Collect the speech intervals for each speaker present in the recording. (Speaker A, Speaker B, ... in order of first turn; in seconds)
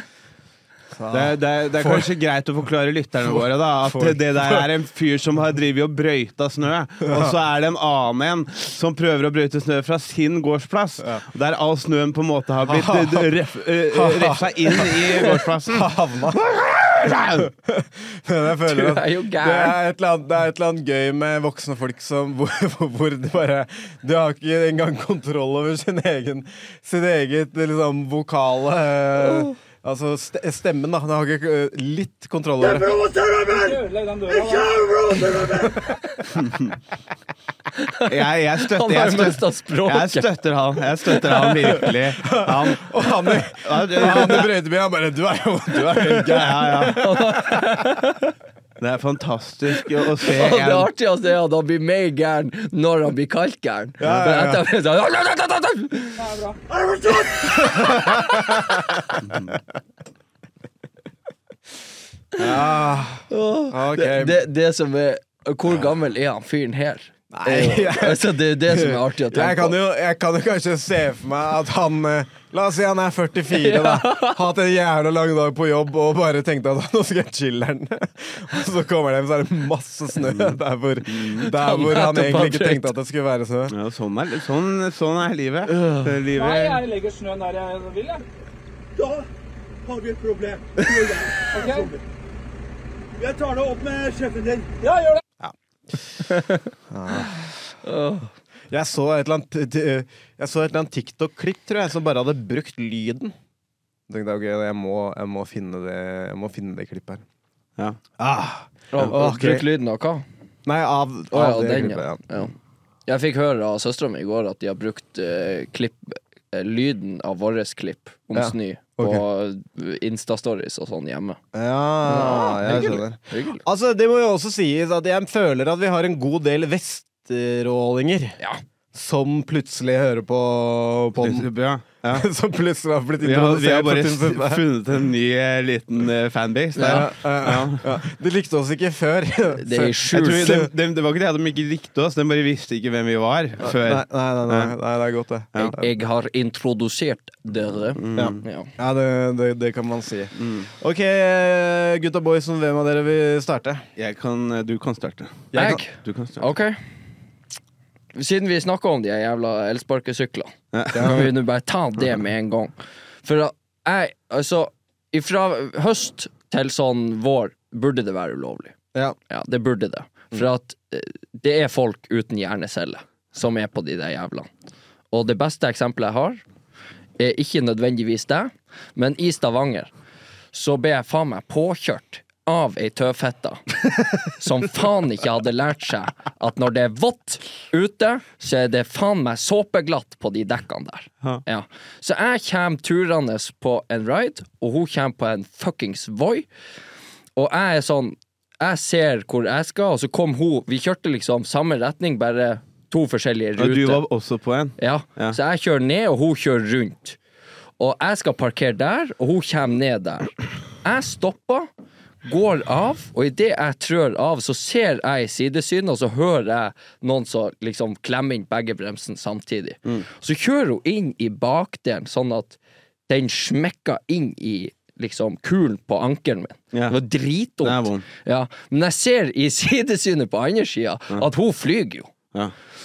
Speaker A: 0.9-2.1, 3.8-4.7, 12.6-13.3, 13.9-32.9, 42.1-47.1, 54.0-54.6, 57.7-58.8, 62.4-64.4, 67.3-83.7, 95.4-96.2, 96.9-97.5, 98.7-103.3, 104.1-107.2, 108.2-109.7, 110.7-112.2, 118.3-119.2, 121.5-128.4, 128.9-131.5, 132.1-134.6, 136.8-140.7, 143.6-145.7, 148.1-153.9, 155.5-155.8, 160.9-161.2
Speaker B: 1.1-15.9, 17.0-17.5, 36.3-36.7, 38.1-44.5, 45.8-47.2, 48.8-50.9, 80.2-80.6, 81.1-81.5, 83.7-86.8, 131.2-132.3, 133.2-137.9, 140.1-144.7, 147.9-148.4, 150.4-150.7, 154.0-156.5, 160.7-161.3, 203.6-205.4, 226.7-227.0, 227.6-228.1
Speaker C: 18.7-19.8, 37.8-38.1, 38.6-40.3, 46.9-48.3, 50.2-56.2, 63.3-69.8, 73.5-74.4, 81.5-82.9, 96.3-96.6, 97.8-98.3, 108.9-110.2, 111.3-112.5, 113.1-121.4, 122.0-123.6, 136.8-137.1, 139.6-140.6, 145.5-148.7, 155.5-156.8, 158.1-168.7, 169.3-174.5, 175.1-176.4, 177.2-179.9, 180.5-196.5, 197.3-204.0, 204.8-207.2, 207.8-210.3, 210.8-211.7, 212.2-232.1
Speaker D: 32.6-35.8, 56.7-57.9, 89.0-89.3, 89.8-92.0, 93.2-94.7
Speaker E: 33.4-34.9, 56.2-56.6, 86.3-88.2, 91.5-91.9, 94.8-95.2